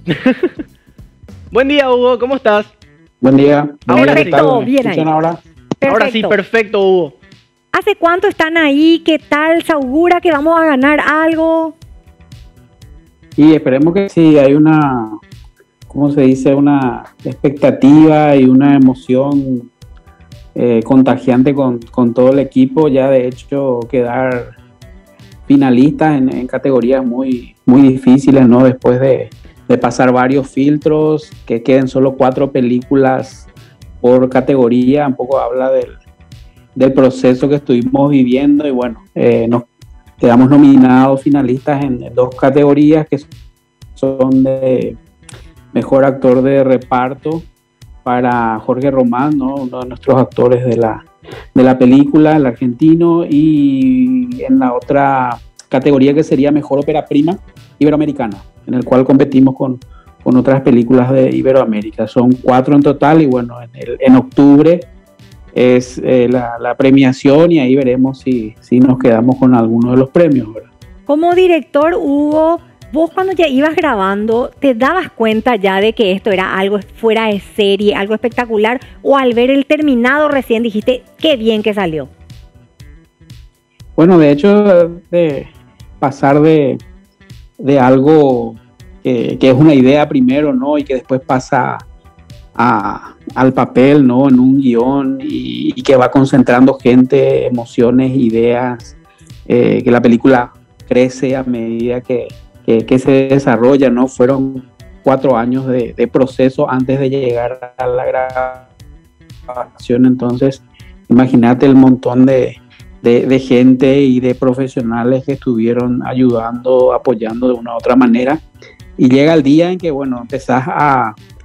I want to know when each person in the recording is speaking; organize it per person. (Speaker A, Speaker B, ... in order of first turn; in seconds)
Speaker A: 0.1-0.5, 1.5-2.7, 3.9-4.6, 5.9-7.2
Speaker B: 3.2-5.4, 13.4-15.2, 15.9-19.7, 20.6-24.6, 25.5-33.5, 34.0-36.0, 36.8-39.7, 40.2-43.3, 44.0-45.0, 45.7-47.5, 48.0-64.9, 65.5-70.7, 84.0-86.8, 87.6-91.9, 92.6-108.7, 109.5-118.4, 119.0-121.2
Speaker C: 3.9-5.1, 5.8-6.3, 7.7-11.8, 71.1-82.1